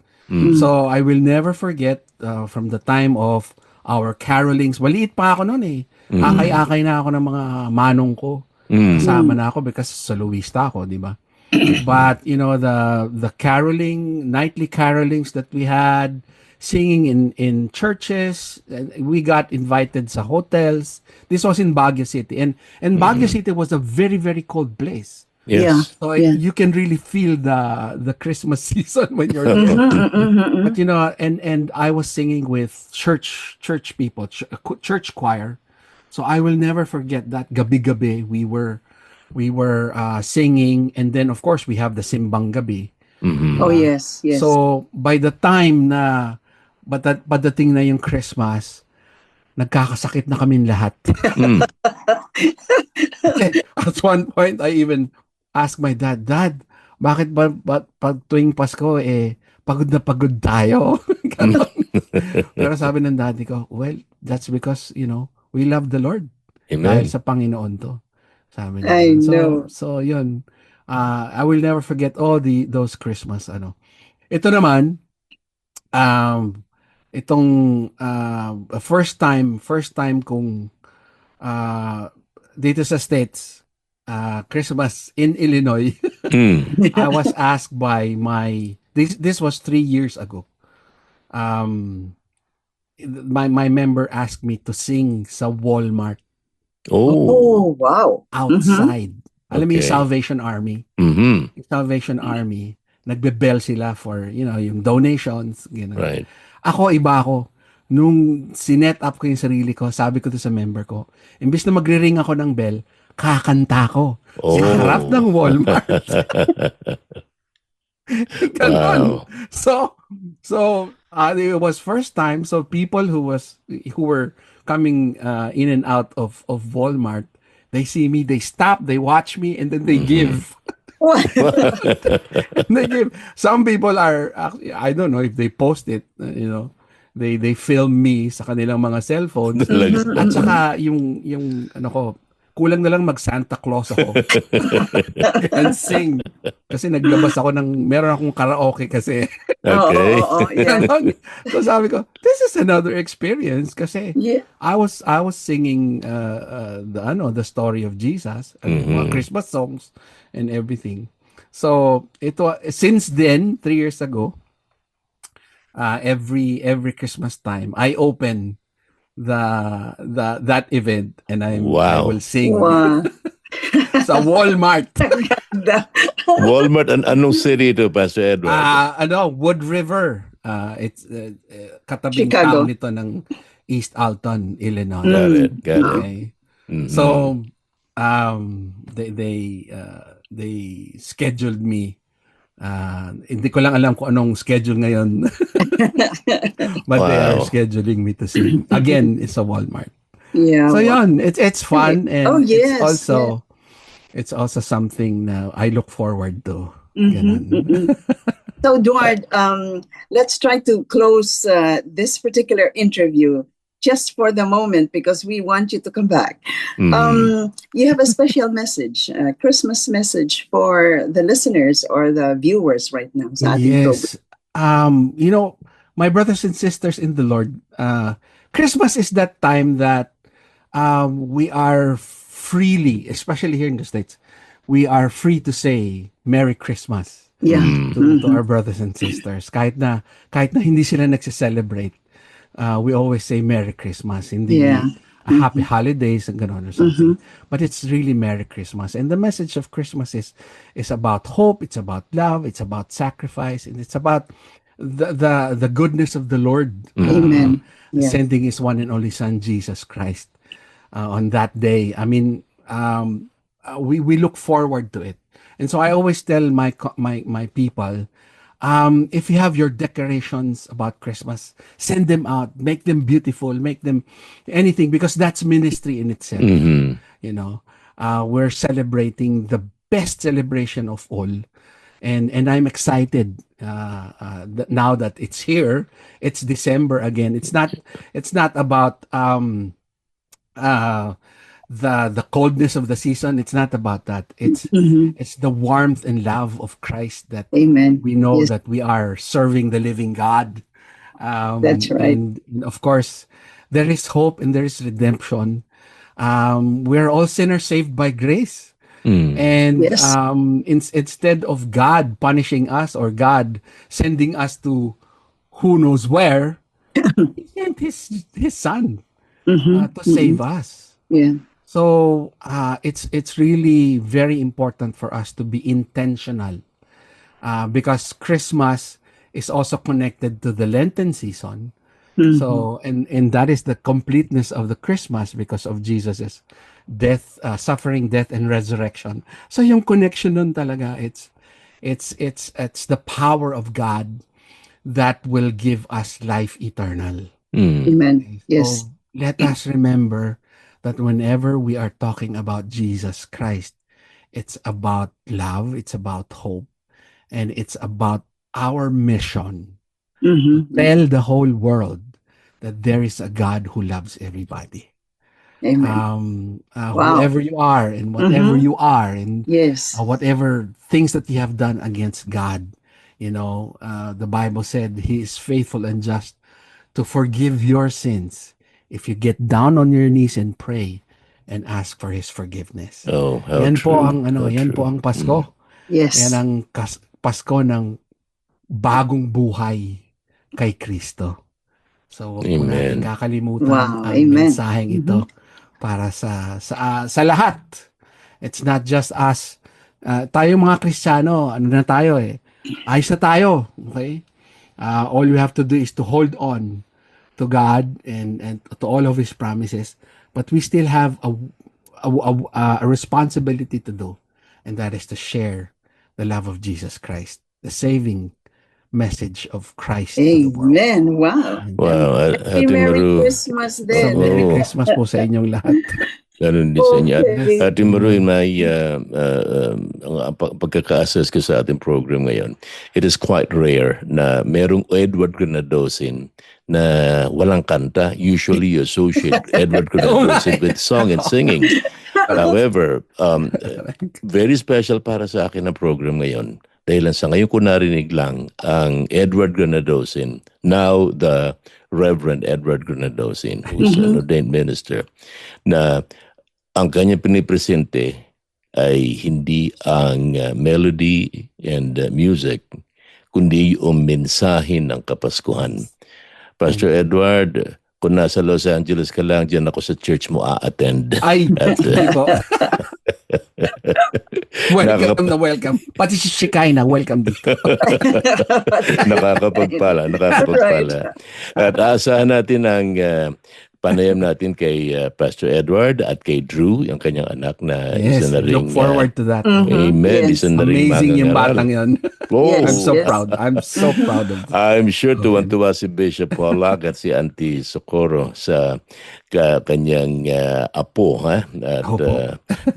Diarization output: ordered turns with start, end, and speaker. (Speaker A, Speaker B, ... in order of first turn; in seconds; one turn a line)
Speaker A: 0.3-0.6
Speaker B: 0.4-0.7
Speaker C: 0.5-25.3
Speaker A: 6.1-6.6
Speaker A: 8.7-9.1
Speaker B: 9.0-9.4
Speaker A: 23.0-23.3
Speaker A: 25.5-25.9
Speaker B: 25.5-26.4
Speaker C: 25.9-30.0
Speaker A: 29.4-30.0
Speaker B: 29.6-30.7
Speaker C: 30.6-35.6
Speaker C: 36.1-38.8
Speaker C: 39.3-42.9
Speaker A: 43.2-43.6
Speaker C: 43.6-46.4
Speaker B: 43.6-44.5
Speaker C: 46.9-48.8
Speaker C: 49.6-51.3
Speaker B: 51.4-53.4
Speaker A: 51.4-51.7
Speaker C: 53.3-66.3
Speaker A: 66.7-67.1
Speaker C: 66.8-68.0
Speaker C: 68.5-73.8
Speaker B: 68.8-69.7
Speaker C: 74.3-75.0
Speaker C: 75.9-80.7
Speaker C: 81.4-90.5
Speaker A: 86.3-86.7
Speaker B: 86.8-87.2
Speaker C: 91.3-92.1
Speaker C: 93.0-96.2
Speaker A: 96.9-97.6
Speaker B: 97.2-98.9
Speaker C: 98.3-100.8
Speaker A: 99.5-100.0
Speaker A: 101.0-101.5
Speaker C: 101.5-116.3
Speaker A: 106.0-106.2
Speaker A: 114.4-117.0
Speaker C: 118.1-130.5
Speaker A: 118.6-119.2
Speaker A: 129.9-130.4
Speaker B: 131.0-131.8
Speaker A: 131.4-132.6
Speaker C: 131.6-131.9
Speaker C: 132.5-149.3
Speaker A: 139.5-140.5
Speaker B: 139.7-140.5
Speaker A: 144.2-145.3
Speaker B: 145.3-145.5
Speaker A: 149.7-150.9
Speaker B: 149.7-150.9
Speaker C: 150.6-164.3
Speaker B: 154.2-154.4
Speaker A: 158.7-159.2
Speaker C: 165.8-168.6
Speaker C: 169.2-173.0
Speaker A: 171.5-172.2
Speaker B: 172.4-173.1
Speaker B: 173.6-174.2
Speaker C: 174.0-175.4
Speaker B: 175.0-176.6
Speaker A: 176.4-178.8
Speaker C: 178.4-186.3
Speaker B: 182.1-182.7
Speaker B: 185.0-186.0
Speaker A: 185.1-186.1
Speaker A: 186.7-187.3
Speaker C: 186.9-192.0
Speaker C: 192.6-195.9
Speaker B: 195.6-196.6
Speaker C: 196.8-199.9
Speaker A: 196.9-197.5
Speaker B: 198.4-199.0
Speaker B: 200.3-201.0
Speaker C: 200.7-203.4
Speaker B: 201.7-203.3
Speaker C: 204.1-208.2
Speaker B: 207.0-207.9
Speaker B: 208.6-224.1
Speaker A: 216.8-217.3
Speaker C: 223.4-230.1
Speaker C: 230.7-242.0
Speaker B: 237.4-238.4
Speaker A: 237.5-237.9
Speaker C: 242.6-260.3
Speaker B: 244.5-245.6
Speaker B: 246.8-247.2
Speaker A: 257.0-257.6
Speaker B: 257.1-258.2
Speaker C: 260.9-268.1
Speaker C: 268.6-276.7
Speaker A: 276.4-277.0
Speaker C: 277.2-281.4
Speaker C: 282.0-289.7
Speaker C: 290.6-291.1
Speaker C: 291.7-300.6
Speaker B: 294.7-295.1
Speaker B: 297.5-298.5
Speaker C: 301.2-305.6
Speaker B: 301.6-302.2
Speaker C: 306.2-308.7
Speaker A: 309.0-309.4
Speaker C: 309.3-315.0
Speaker B: 309.8-310.1
Speaker C: 315.5-316.6
Speaker B: 317.0-317.3
Speaker C: 317.4-319.0
Speaker B: 319.5-320.4
Speaker C: 319.7-320.9
Speaker B: 321.1-321.4
Speaker C: 321.7-326.6
Speaker C: 327.4-331.7
Speaker B: 332.2-332.6
Speaker C: 332.3-341.3
Speaker C: 341.8-344.2
Speaker C: 344.8-347.3
Speaker A: 347.5-347.9
Speaker B: 347.9-348.8
Speaker C: 348.3-353.8
Speaker C: 354.3-356.7
Speaker C: 357.3-359.7
Speaker B: 360.2-360.9
Speaker C: 360.6-362.1
Speaker C: 362.6-364.9
Speaker B: 365.6-366.0
Speaker C: 365.8-372.7
Speaker B: 366.9-367.3
Speaker B: 368.2-368.6
Speaker B: 369.5-370.0
Speaker C: 373.2-376.4
Speaker C: 376.9-383.1
Speaker A: 383.1-385.4
Speaker C: 383.6-385.5
Speaker B: 385.9-386.4
Speaker C: 386.1-387.9
Speaker C: 388.8-390.0
Speaker C: 390.6-391.4
Speaker C: 392.1-395.3
Speaker A: 392.4-393.1
Speaker B: 393.6-395.2
Speaker C: 395.8-397.9
Speaker C: 398.4-404.2
Speaker C: 404.8-406.8
Speaker C: 407.4-418.3
Speaker C: 418.9-420.8
Speaker B: 420.2-421.6
Speaker C: 421.6-422.1
Speaker A: 421.8-423.4
Speaker B: 422.5-424.7
Speaker A: 423.9-424.6
Speaker C: 423.9-426.0
Speaker A: 426.4-441.8
Speaker B: 426.8-427.6
Speaker C: 427.3-428.2
Speaker C: 440.0-441.7
Speaker B: 441.7-442.4
Speaker A: 442.3-455.1
Speaker C: 443.5-444.2
Speaker B: 453.8-454.2
Speaker A: 455.7-456.0
Speaker A: 456.8-458.1
Speaker A: 458.8-462.6
Speaker A: 463.3-465.9
Speaker A: 466.6-472.1
Speaker C: 471.2-472.8
Speaker B: 471.7-472.7
Speaker A: 473.3-475.3
Speaker C: 474.7-477.9
Speaker A: 477.4-489.1
Speaker B: 477.8-481.7
Speaker C: 487.9-489.8
Speaker B: 489.4-490.4
Speaker A: 489.7-491.6
Speaker C: 490.5-492.1
Speaker A: 492.3-493.3
Speaker B: 492.4-493.1
Speaker C: 492.6-494.5
Speaker B: 493.8-494.1
Speaker A: 494.5-498.8
Speaker C: 495.2-495.5
Speaker A: 499.3-502.4
Speaker C: 501.8-502.2